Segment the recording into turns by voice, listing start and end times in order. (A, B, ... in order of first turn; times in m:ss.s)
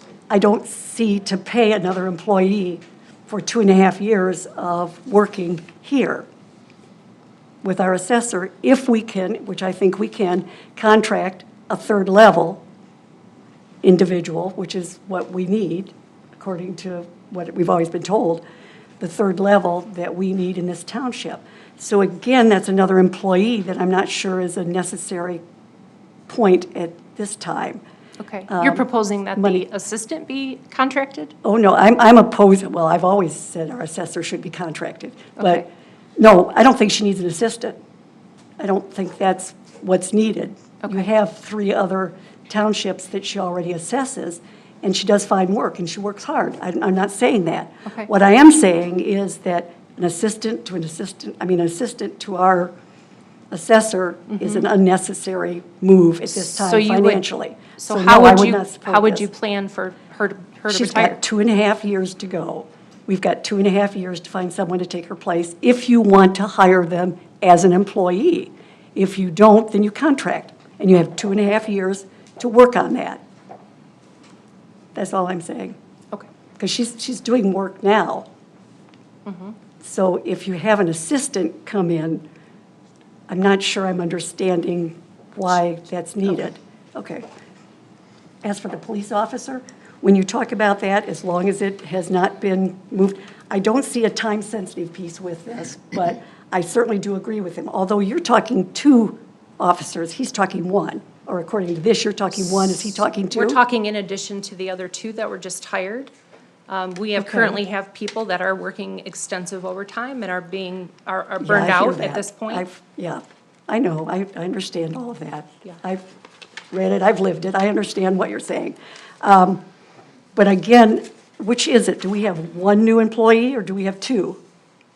0:00.3-0:06.2 A
0:07.6-0:12.6 A
0:13.8-0:18.4 A
0:19.0-0:25.4 A
0:26.3-0:27.8 A
0:28.2-0:31.3 B
0:28.5-0:28.8 A
0:29.4-0:29.6 A
0:31.4-0:37.8 A
0:38.6-0:52.7 A
0:53.5-0:59.2 A
0:54.3-0:54.7 B
0:56.4-1:01.2 B
1:00.7-1:13.2 A
1:14.9-1:15.8 A
1:16.6-1:18.3 A
1:19.2-1:19.6 B
1:19.8-1:22.2 A
1:23.3-1:27.2 A
1:28.4-1:43.6 A
1:43.3-1:46.1 B
1:46.7-1:52.6 B
1:47.2-1:47.6 A
1:51.4-1:56.0 A
1:56.7-1:59.6 A
2:00.3-2:04.4 A